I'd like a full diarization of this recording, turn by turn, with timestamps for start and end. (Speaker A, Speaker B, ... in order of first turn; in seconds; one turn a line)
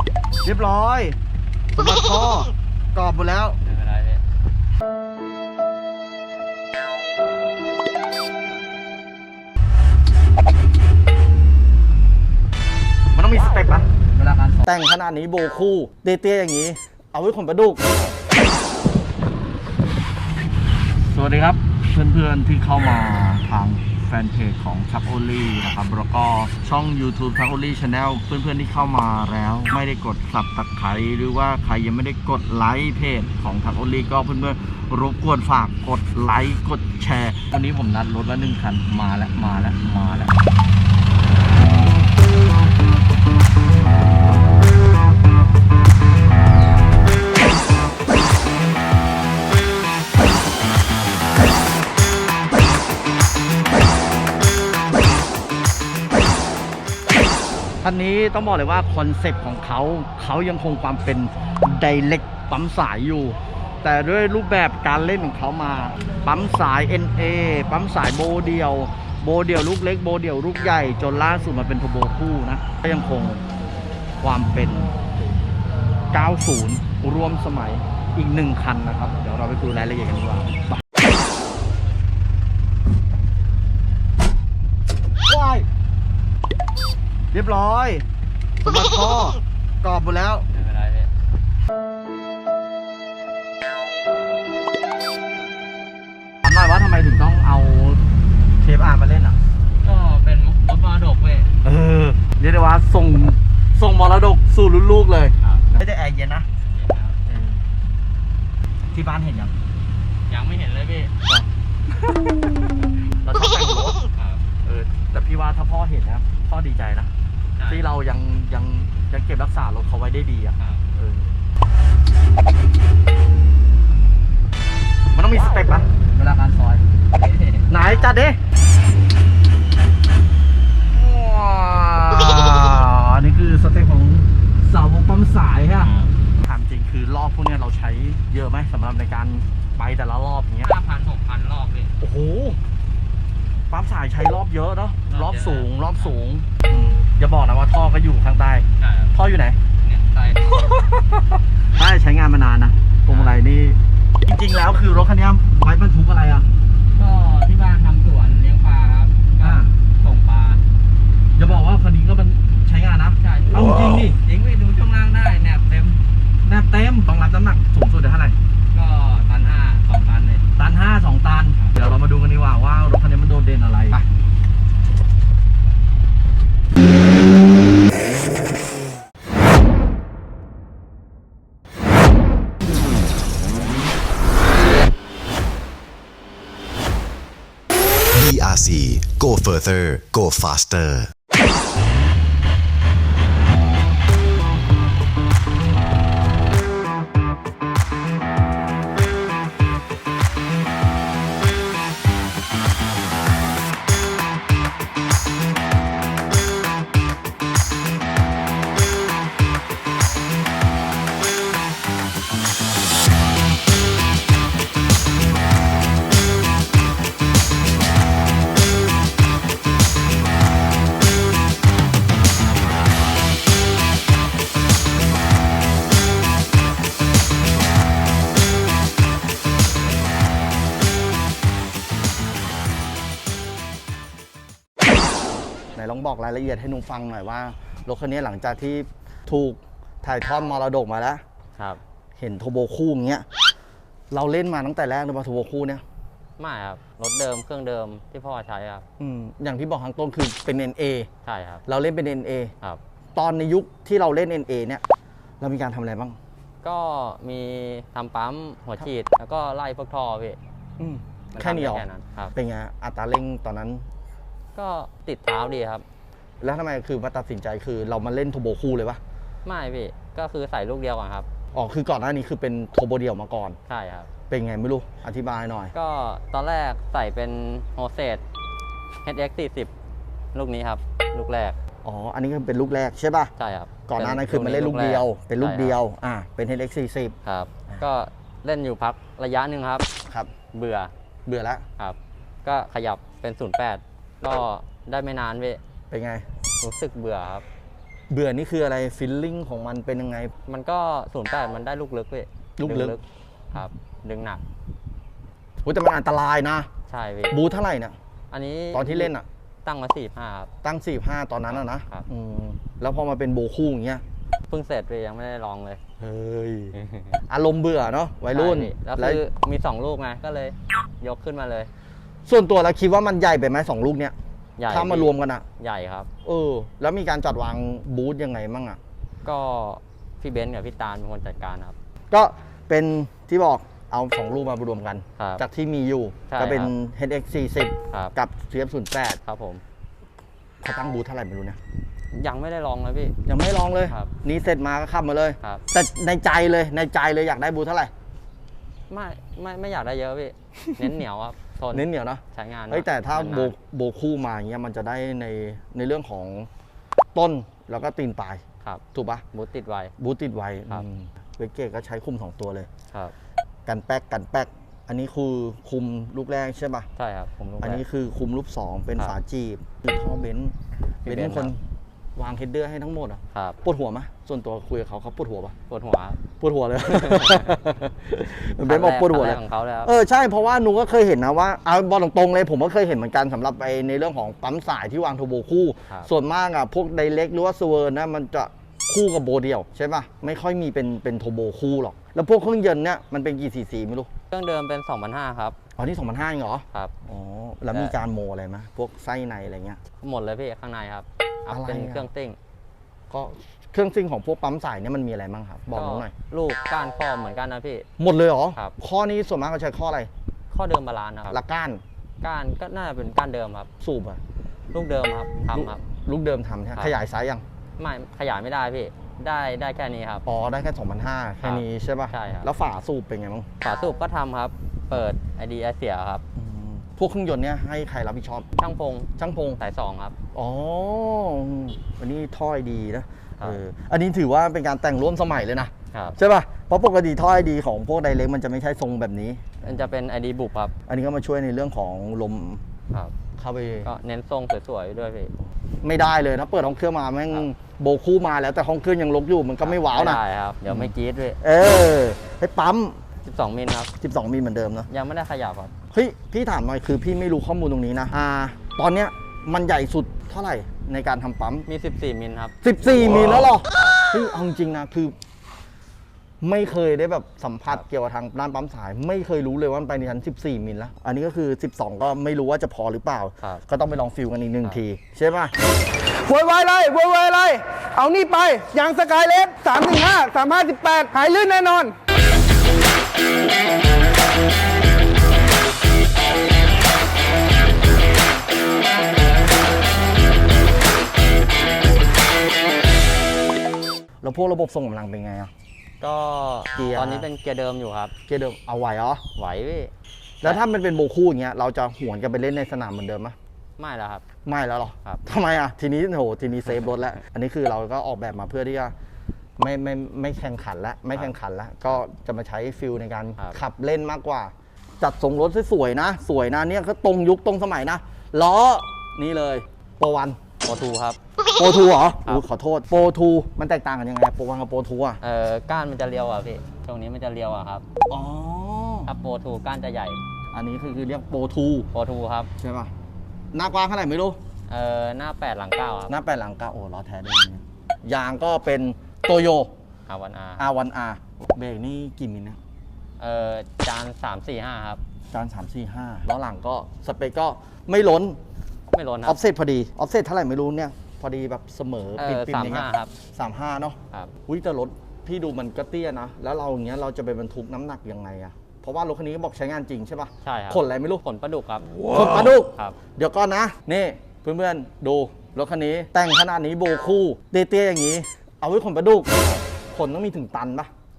Speaker A: 0.4-1.2
Speaker A: 1.7-3.6
Speaker B: 3.6-4.2
Speaker A: 13.1-17.9
Speaker A: 21.1-40.3
Speaker A: 57.8-73.4
Speaker A: 74.2-74.9
Speaker A: 76.1-80.7
Speaker A: 85.3-85.7
Speaker A: 87.3-88.0
Speaker A: 88.6-90.5
Speaker B: 90.5-91.1
Speaker A: 96.4-98.0
Speaker A: 98.6-99.4
Speaker B: 99.8-101.5
Speaker A: 101.6-106.5
Speaker B: 105.4-105.7
Speaker B: 106.7-107.3
Speaker A: 108.9-109.5
Speaker B: 110.3-111.1
Speaker A: 111.3-112.3
Speaker A: 113.2-114.1
Speaker B: 114.2-114.4
Speaker A: 114.6-117.1
Speaker B: 117.5-117.8
Speaker A: 117.7-121.4
Speaker A: 125.1-126.8
Speaker B: 127.1-128.1
Speaker A: 127.7-128.4
Speaker A: 130.9-140.7
Speaker B: 135.8-136.3
Speaker B: 140.6-141.9
Speaker A: 142.0-142.6
Speaker A: 143.7-149.6
Speaker B: 145.1-146.2
Speaker B: 148.8-149.1
Speaker B: 149.8-150.7
Speaker A: 150.7-156.4
Speaker B: 153.1-153.4
Speaker B: 156.9-160.6
Speaker A: 159.4-159.7
Speaker A: 161.3-164.2
Speaker B: 163.2-166.0
Speaker A: 166.4-168.4
Speaker B: 168.7-170.4
Speaker A: 170.6-174.1
Speaker C: 188.1-191.1
Speaker A: 235.8-241.2
Speaker A: 242.2-243.2
Speaker A: 244.1-245.8
Speaker B: 246.4-248.8
Speaker A: 249.0-251.1
Speaker B: 251.2-251.6
Speaker A: 251.7-252.5
Speaker A: 253.1-254.8
Speaker A: 255.4-256.2
Speaker B: 256.6-260.4
Speaker A: 260.8-263.9
Speaker B: 261.3-262.3
Speaker B: 264.5-265.8
Speaker A: 266.4-269.0
Speaker B: 269.4-271.3
Speaker A: 271.5-273.6
Speaker B: 273.7-274.1
Speaker A: 274.3-275.7
Speaker B: 275.7-278.2
Speaker B: 279.0-279.7
Speaker B: 280.3-281.6
Speaker A: 281.8-283.3
Speaker B: 283.4-285.8
Speaker A: 283.9-287.1
Speaker B: 287.2-289.9
Speaker A: 290.0-290.3
Speaker B: 290.5-290.9
Speaker A: 291.2-291.6
Speaker B: 291.8-295.6
Speaker A: 295.9-296.2
Speaker B: 296.6-297.4
Speaker A: 298.1-300.3
Speaker B: 300.5-304.4
Speaker A: 302.6-303.0
Speaker A: 305.6-306.7
Speaker B: 306.9-307.4
Speaker A: 307.3-307.9
Speaker B: 308.3-309.1
Speaker A: 308.7-309.2
Speaker B: 309.6-310.5
Speaker A: 310.6-314.0
Speaker B: 311.5-312.1
Speaker B: 314.5-315.8
Speaker A: 316.0-319.2
Speaker B: 316.8-317.1
Speaker B: 318.3-321.7
Speaker A: 322.2-324.1
Speaker B: 324.6-326.1
Speaker A: 324.7-325.4
Speaker A: 326.2-328.8
Speaker B: 329.2-331.7
Speaker A: 332.1-339.2
Speaker B: 335.2-335.4
Speaker B: 336.3-336.7
Speaker B: 339.2-339.6
Speaker A: 340.6-341.6
Speaker B: 342.1-343.1
Speaker A: 343.2-347.9
Speaker B: 348.9-353.5
Speaker A: 351.7-356.5
Speaker A: 357.1-358.4
Speaker A: 358.9-359.2
Speaker B: 359.3-359.9
Speaker A: 360.0-362.7
Speaker A: 363.6-366.9
Speaker B: 367.0-367.8
Speaker A: 367.6-371.6
Speaker B: 371.1-371.5
Speaker A: 372.1-375.5
Speaker B: 373.3-373.6
Speaker B: 375.7-376.2
Speaker A: 376.4-394.1
Speaker B: 376.9-377.6
Speaker B: 378.6-379.9
Speaker B: 394.3-395.6
Speaker A: 395.8-399.8
Speaker B: 400.0-402.4
Speaker A: 401.5-402.1
Speaker A: 403.1-406.1
Speaker B: 405.7-407.9
Speaker A: 408.0-410.1
Speaker B: 410.5-411.4
Speaker A: 411.3-411.8
Speaker B: 412.2-413.7
Speaker A: 413.8-414.2
Speaker B: 414.7-415.8
Speaker A: 415.5-417.4
Speaker B: 417.8-420.2
Speaker A: 420.2-423.5
Speaker B: 421.4-422.5
Speaker B: 423.6-426.2
Speaker A: 426.4-428.5
Speaker B: 428.6-430.1
Speaker A: 429.2-429.6
Speaker A: 430.3-439.9
Speaker B: 439.6-440.7
Speaker A: 440.9-442.6
Speaker A: 443.4-443.9
Speaker B: 443.8-445.3
Speaker A: 445.8-453.0
Speaker B: 449.6-451.4
Speaker B: 453.2-453.9
Speaker A: 454.0-454.9
Speaker B: 454.9-455.7
Speaker A: 455.9-461.7
Speaker B: 461.7-462.5
Speaker A: 462.6-465.1
Speaker B: 463.7-464.0
Speaker A: 466.4-475.5
Speaker D: 476.1-482.0
Speaker A: 494.2-495.5
Speaker B: 496.0-498.1
Speaker A: 496.8-497.3
Speaker A: 498.3-499.2
Speaker B: 499.4-499.9
Speaker A: 500.4-503.4
Speaker B: 503.8-504.2
Speaker A: 504.4-508.9
Speaker A: 509.6-520.4
Speaker B: 520.6-521.2
Speaker A: 521.5-525.2
Speaker B: 525.2-527.8
Speaker A: 528.1-529.1
Speaker B: 529.0-530.2
Speaker A: 530.5-531.9
Speaker B: 531.9-532.5
Speaker A: 532.6-532.9
Speaker A: 533.5-534.4
Speaker B: 534.7-536.1
Speaker A: 536.1-539.7
Speaker B: 540.1-540.6
Speaker A: 540.6-542.6
Speaker B: 543.2-545.0
Speaker A: 545.3-548.4
Speaker B: 548.9-549.4
Speaker A: 549.2-561.2
Speaker B: 552.2-553.1
Speaker B: 560.4-563.0
Speaker A: 561.9-569.3
Speaker A: 569.9-570.9